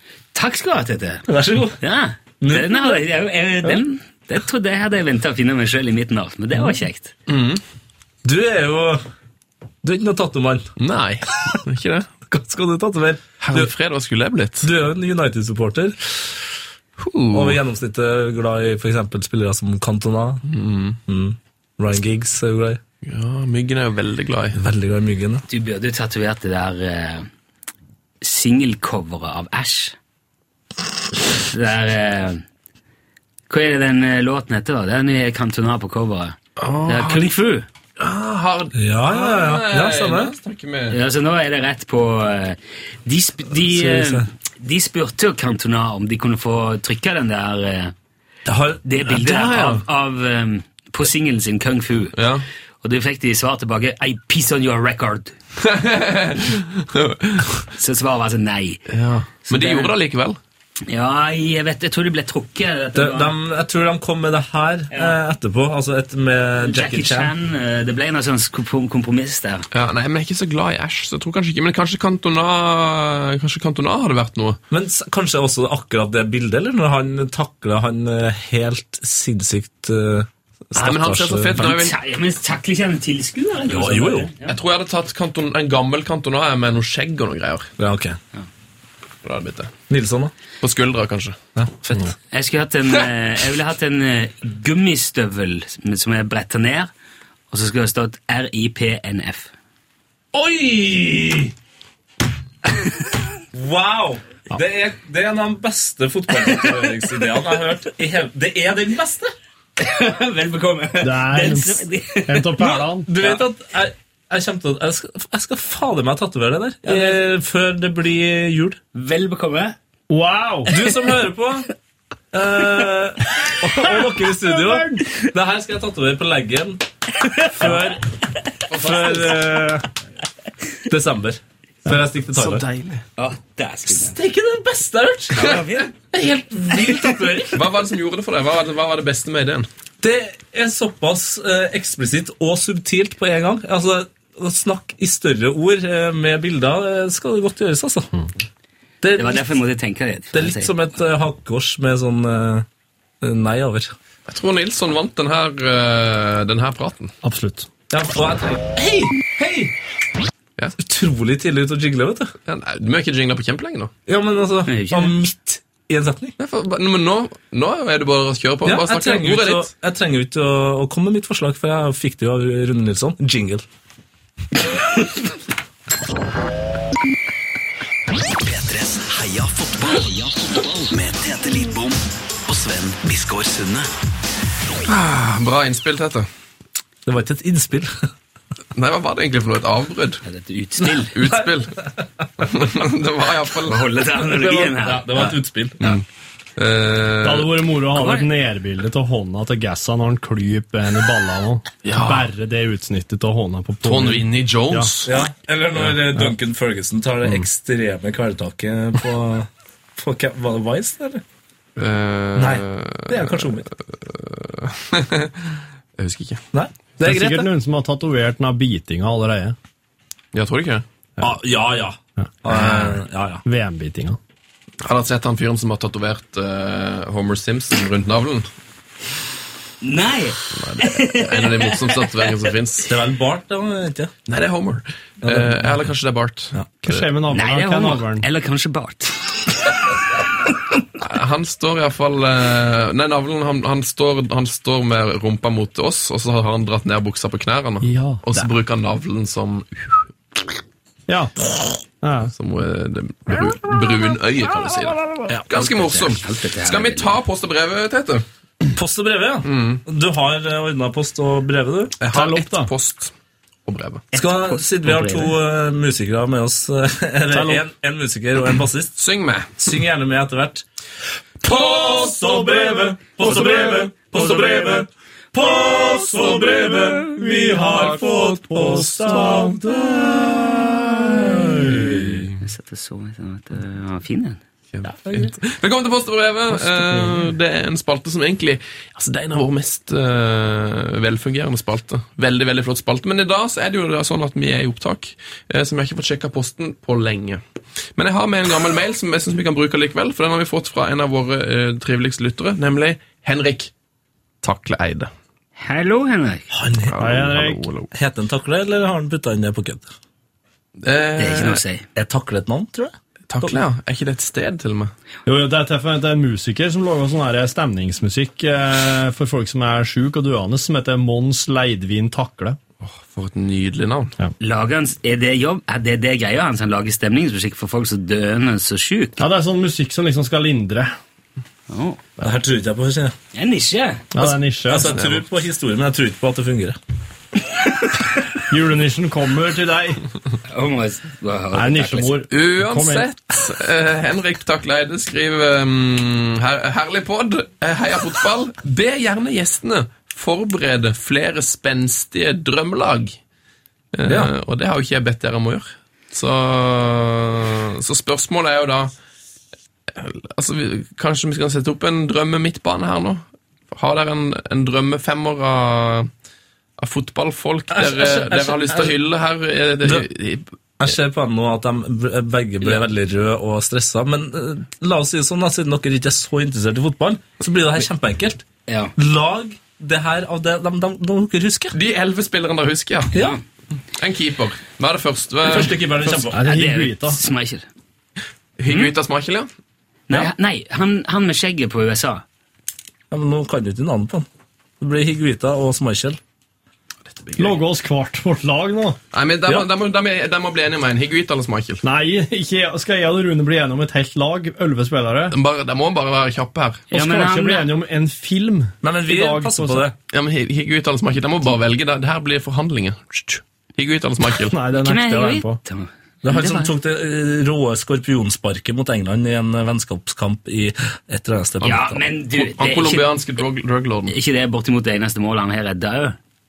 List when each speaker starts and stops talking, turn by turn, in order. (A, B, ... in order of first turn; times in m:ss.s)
0:00.3-0:01.3 A
0:01.3-0:01.8 B
0:01.8-0:07.1 A
0:02.4-0:03.0 B
0:07.3-0:07.6 C
0:08.2-0:09.0 B
0:09.8-0:10.7 B
0:10.8-0:12.2 C
0:12.3-0:13.7 B
0:13.4-0:14.7 C
0:14.6-0:16.4 B
0:17.0-0:17.6 C
0:17.3-0:20.4 B
0:20.5-0:21.0 C
0:21.1-0:22.8 B
0:23.0-0:24.6 C
0:24.6-0:25.4 B
0:25.5-0:27.3 A
0:28.2-0:30.0 A
0:31.4-0:32.4 A
0:33.5-0:37.7 A
0:36.6-0:37.3 C
0:38.0-0:41.0 C
0:38.8-0:40.4 B
0:40.9-0:47.9 A
0:43.7-0:44.3 B
0:48.5-0:48.9 B
0:48.8-0:52.2 A
0:49.2-0:49.8 C
0:52.2-0:52.5 C
0:52.8-0:55.3 A
0:55.6-0:57.7 C
0:57.8-0:58.8 A
0:58.9-1:00.4 C
0:59.5-0:59.9 A
1:00.9-1:03.3 A
1:03.0-1:07.3 B
1:04.9-1:05.2 A
1:06.6-1:09.7 A
1:09.7-1:14.6 C
1:14.7-1:21.8 B
1:20.8-1:22.0 C
1:21.6-1:24.6 A
1:23.7-1:24.3 B
1:24.5-1:27.7 C
1:27.8-1:28.2 B
1:29.2-1:29.7 C
1:29.9-1:30.3 B
1:30.6-1:31.4 C
1:31.6-1:32.1 B
1:32.3-1:36.9 A
1:37.5-1:39.5 A
1:40.3-1:41.5 B
1:43.5-1:49.3 B
1:49.8-1:53.4 A
1:51.0-1:53.1 D
1:53.0-1:58.8 B
1:56.9-1:57.2 A
1:59.0-1:59.8 A
2:00.1-2:00.7 D
2:00.7-2:01.7 B
2:02.3-2:06.8 B
2:03.6-2:05.1 D
2:07.4-2:08.0 B
2:08.7-2:09.3 C
2:08.7-2:09.9 B
2:10.9-2:12.6 B
2:12.3-2:13.0 C
2:13.2-2:14.2 A
2:13.9-2:17.6 B
2:15.3-2:15.9 A
2:17.5-2:19.7 C
2:20.0-2:28.1 B
2:29.0-2:29.5 B
2:29.2-2:30.7 A
2:30.3-2:32.7 B
2:33.2-2:33.9 B
2:34.3-2:37.1 C
2:37.2-2:37.7 D
2:37.9-2:39.7 B
2:40.8-2:42.3 B
2:42.5-2:43.9 C
2:44.1-2:46.4 B
2:44.7-2:45.2 A
2:46.4-2:49.7 C
2:48.6-2:53.6 B
2:58.3-3:03.9 E
3:04.8-3:06.3 C
3:07.1-3:08.0 B
3:08.7-3:10.2 C
3:10.2-3:11.2 A
3:11.1-3:11.8 C
3:11.2-3:11.9 B
3:12.4-3:13.8 C
3:13.7-3:15.3 A
3:14.2-3:16.0 B
3:16.6-3:17.6 C
3:17.2-3:24.9 D
3:17.9-3:18.3 A
3:21.8-3:22.3 C
3:23.8-3:25.2 C
3:25.0-3:31.2 B
3:31.8-3:36.4 C
3:32.4-3:33.7 B
3:36.5-3:37.5 B
3:37.0-3:39.6 D
3:40.3-3:40.8 C
3:41.2-3:43.4 B
3:42.2-3:44.2 D
3:44.8-3:48.5 C
3:49.8-3:52.4 A
3:50.5-3:52.9 C
3:52.9-3:54.1 B
3:54.3-3:57.1 C
3:55.2-3:55.7 B
3:56.8-3:58.3 D
3:57.3-3:59.3 A
4:01.0-4:10.0 C
4:07.8-4:08.4 D
4:11.1-4:11.4 D
4:12.0-4:12.3 D
4:12.3-4:18.3 C
4:15.5-4:17.2 A
4:18.7-4:22.0 B
4:19.4-4:19.8 C
4:22.0-4:23.1 C
4:22.1-4:22.7 D
4:23.7-4:24.1 C
4:24.1-4:25.3 A
4:24.1-4:28.9 B
4:27.3-4:27.6 D
4:29.0-4:29.5 C
4:29.6-4:30.6 B
4:31.4-4:42.3 B
4:37.3-4:39.8 D
4:41.0-4:41.5 D
4:42.4-4:44.4 A
4:44.7-4:57.4 C
4:58.0-5:03.7 C
5:04.4-5:05.1 C
5:05.6-5:06.5 A
5:06.5-5:07.0 B
5:06.8-5:07.9 C
5:07.0-5:07.7 D
5:07.9-5:09.9 B
5:10.8-5:11.6 C
5:11.2-5:11.8 A
5:12.0-5:13.6 B
5:13.3-5:14.9 C
5:15.3-5:22.6 D
5:22.8-5:24.1 C
5:24.4-5:29.2 A
5:29.2-5:30.9 D
5:31.7-5:32.0 A
5:32.2-5:33.2 B
5:33.3-5:34.0 A
5:34.1-5:35.0 D
5:34.7-5:36.8 B
5:34.8-5:35.2 C
5:38.5-5:40.0 D
5:40.5-5:42.2 A
5:41.5-5:43.1 D
5:42.3-5:53.2 C
5:53.9-5:58.9 C
5:54.1-5:54.3 B
5:59.9-6:06.1 C
6:06.8-6:10.5 C
6:07.7-6:09.0 B
6:10.8-6:18.4 B
6:18.7-6:18.9 A
6:19.0-6:21.8 B
6:21.7-6:23.2 C
6:23.2-6:23.4 A
6:23.9-6:26.3 C
6:25.4-6:26.4 B
6:26.3-6:27.2 D
6:26.4-6:27.7 A
6:28.6-6:29.5 C
6:28.7-6:28.9 A
6:30.1-6:32.2 A
6:33.1-6:34.3 B
6:34.8-6:36.2 B
6:37.1-6:37.6 C
6:37.4-6:39.0 D
6:39.1-6:41.8 C
6:41.8-6:45.4 D
6:45.3-6:46.9 C
6:46.9-6:47.7 A
6:46.9-6:49.9 D
6:48.8-6:50.0 B
6:50.1-6:54.6 C
6:54.4-6:55.6 D
6:54.8-6:56.7 A
6:56.2-7:02.0 B
7:01.6-7:03.1 A
7:02.3-7:04.1 C
7:04.1-7:06.2 A